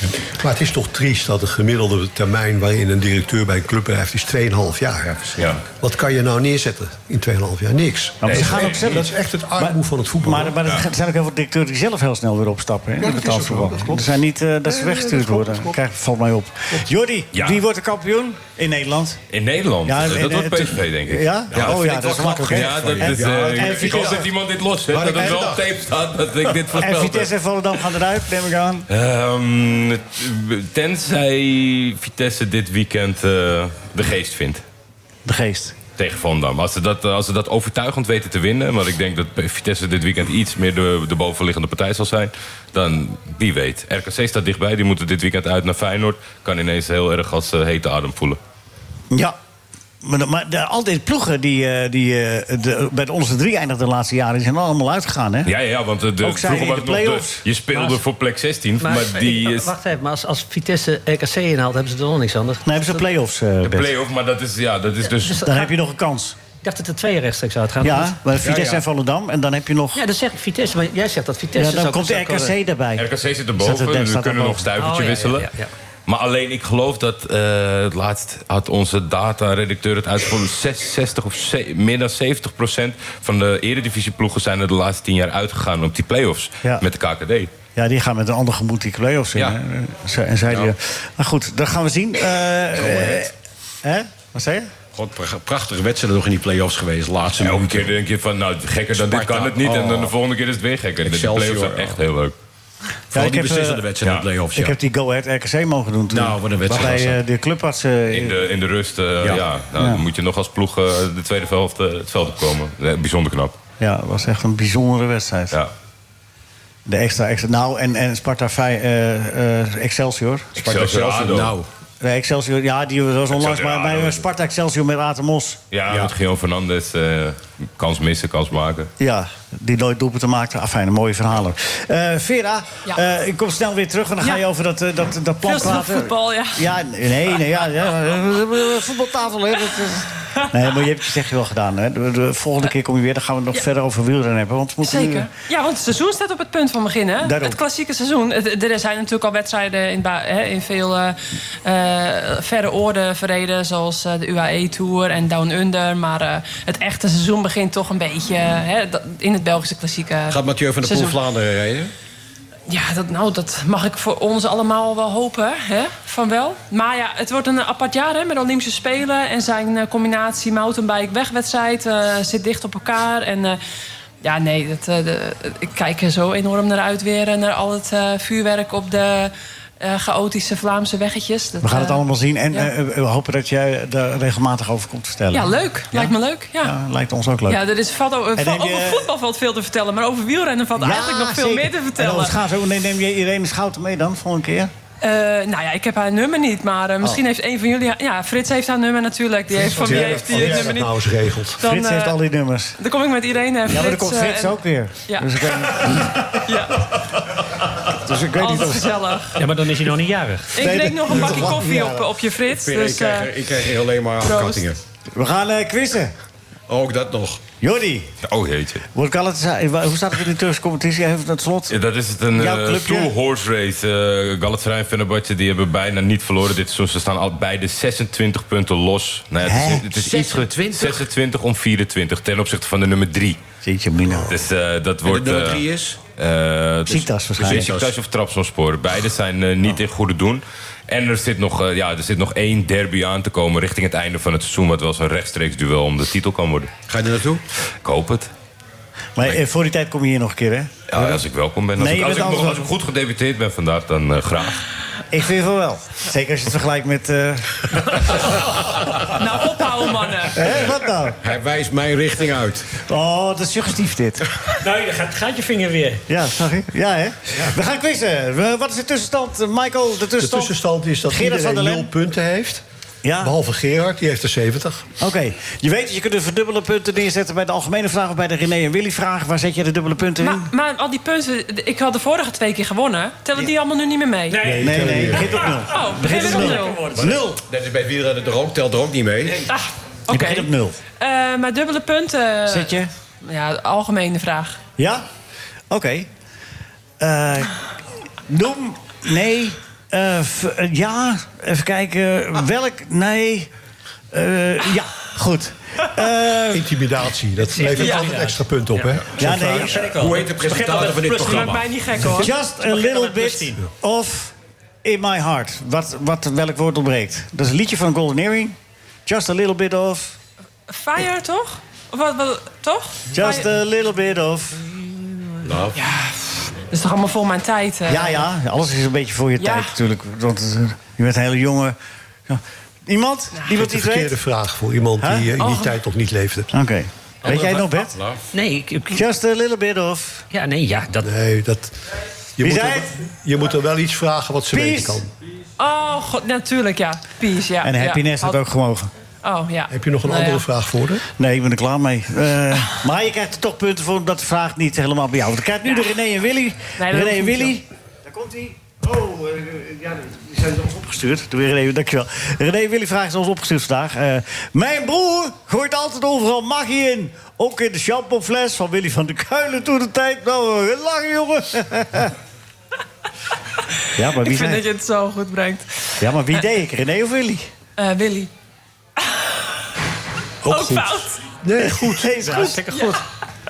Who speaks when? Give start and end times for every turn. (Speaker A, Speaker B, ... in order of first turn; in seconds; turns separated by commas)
Speaker A: 0.2-10.6, Speaker B: 5.3-5.6, Speaker C: 8.2-19.2, Speaker B: 8.3-9.0, Speaker A: 13.0-15.8, Speaker B: 17.3-17.6, Speaker B: 19.3-21.8, Speaker C: 19.9-24.2, Speaker D: 21.5-24.2, Speaker B: 22.4-27.3, Speaker D: 24.9-25.6, Speaker A: 25.0-25.6, Speaker C: 26.8-28.9, Speaker B: 28.9-34.6, Speaker C: 35.3-35.8, Speaker B: 36.0-48.4, Speaker C: 49.1-49.4, Speaker C: 50.0-55.5, Speaker B: 55.5-59.7, Speaker C: 56.2-57.4, Speaker E: 57.7-58.0, Speaker E: 58.8-63.1, Speaker C: 62.6-63.9, Speaker B: 63.6-65.5, Speaker E: 65.2-65.7, Speaker C: 65.3-66.4, Speaker E: 66.6-68.2, Speaker C: 67.8-70.0, Speaker D: 68.4-68.8, Speaker E: 69.9-72.6, Speaker C: 71.6-74.7, Speaker B: 73.0-75.5, Speaker E: 74.8-75.7, Speaker B: 76.1-87.5, Speaker C: 87.8-93.3, Speaker D: 92.8-93.3, Speaker C: 93.8-94.7, Speaker D: 94.9-98.0, Speaker B: 97.4-102.3, Speaker D: 98.9-100.1, Speaker D: 101.0-102.0, Speaker C: 103.1-103.8, Speaker D: 103.1-104.8, Speaker B: 104.0-104.3, Speaker C: 104.5-108.5, Speaker D: 106.1-107.2, Speaker B: 108.1-113.6, Speaker C: 109.8-110.0, Speaker C: 113.8-115.6, Speaker C: 116.9-120.5, Speaker B: 120.6-121.6, Speaker D: 120.6-121.7, Speaker C: 122.0-125.6, Speaker B: 123.3-124.2, Speaker B: 125.7-128.9, Speaker D: 125.9-126.1, Speaker C: 129.0-145.3, Speaker F: 135.4-136.7, Speaker F: 144.8-161.2, Speaker C: 147.2-147.6, Speaker D: 160.3-161.9, Speaker F: 162.7-173.6, Speaker F: 174.2-182.7, Speaker C: 181.6-187.6, Speaker F: 185.3-186.8, Speaker F: 187.5-192.4, Speaker C: 188.4-189.1, Speaker C: 190.8-194.7, Speaker F: 195.0-201.0, Speaker A: 199.6-201.6, Speaker C: 199.7-200.8, Speaker F: 201.6-202.2, Speaker C: 201.6-202.8, Speaker F: 202.8-206.9, Speaker C: 203.7-206.6, Speaker C: 207.8-209.2, Speaker F: 208.3-209.4, Speaker E: 209.4-210.6, Speaker F: 210.6-213.3, Speaker C: 210.6-212.1, Speaker D: 212.5-214.8, Speaker F: 214.2-214.7, Speaker C: 215.2-216.1, Speaker D: 216.7-217.4, Speaker C: 217.6-218.1, Speaker B: 218.2-218.8, Speaker C: 218.9-221.8, Speaker B: 221.7-233.4, Speaker C: 222.3-223.1, Speaker C: 229.4-229.8, Speaker D: 229.9-231.1, Speaker C: 233.6-234.3, Speaker B: 234.3-235.6, Speaker D: 235.1-236.0, Speaker B: 236.2-246.7, Speaker C: 236.9-237.7, Speaker D: 237.4-237.9, Speaker D: 246.9-247.4, Speaker B: 247.8-248.3, Speaker C: 249.2-251.1, Speaker B: 250.9-254.6, Speaker C: 251.8-252.7, Speaker C: 255.1-258.4, Speaker F: 259.1-260.4, Speaker C: 260.3-261.2, Speaker D: 261.2-262.7, Speaker C: 262.8-264.3, Speaker E: 264.6-266.1, Speaker C: 266.1-271.9, Speaker A: 270.2-272.6, Speaker C: 273.0-273.3, Speaker A: 273.2-274.9, Speaker C: 275.0-280.5, Speaker F: 280.2-284.5, Speaker E: 284.3-287.2, Speaker C: 284.4-287.4, Speaker A: 284.5-285.4, Speaker D: 284.7-285.3, Speaker F: 285.7-286.9, Speaker D: 287.4-289.5, Speaker F: 289.5-294.6, Speaker C: 290.1-290.8, Speaker C: 292.5-292.9, Speaker C: 294.8-295.1, Speaker C: 295.7-296.1, Speaker C: 297.0-297.6, Speaker C: 298.3-303.5, Speaker C: 304.1-306.7, Speaker A: 306.5-309.9, Speaker E: 307.5-313.6, Speaker F: 307.8-308.2, Speaker C: 309.2-309.8, Speaker D: 309.8-311.7, Speaker F: 311.2-312.3, Speaker C: 312.1-320.1, Speaker F: 320.7-323.5, Speaker C: 323.1-324.8, Speaker D: 325.4-325.8, Speaker F: 325.8-328.3, Speaker C: 327.9-331.8, Speaker F: 329.4-329.7, Speaker C: 332.3-334.2, Speaker A: 333.5-336.5, Speaker C: 335.0-335.3, Speaker F: 335.4-335.8, Speaker C: 336.5-338.0, Speaker D: 337.2-338.2, Speaker E: 337.3-337.6, Speaker E: 338.3-339.0, Speaker C: 338.9-340.2, Speaker E: 340.3-341.1, Speaker A: 341.0-341.8, Speaker A: 342.4-345.1, Speaker C: 342.4-342.9, Speaker C: 344.5-345.0, Speaker F: 345.6-348.4, Speaker C: 347.6-348.9, Speaker F: 349.2-350.5, Speaker A: 349.7-351.0, Speaker C: 351.2-372.1, Speaker F: 355.6-355.9, Speaker F: 356.8-357.6, Speaker C: 373.9-374.6, Speaker F: 374.1-376.0, Speaker C: 376.0-377.5, Speaker F: 377.8-378.3, Speaker F: 379.0-379.4, Speaker A: 380.4-382.6, Speaker F: 380.5-381.2, Speaker C: 381.6-383.0, Speaker F: 382.3-382.9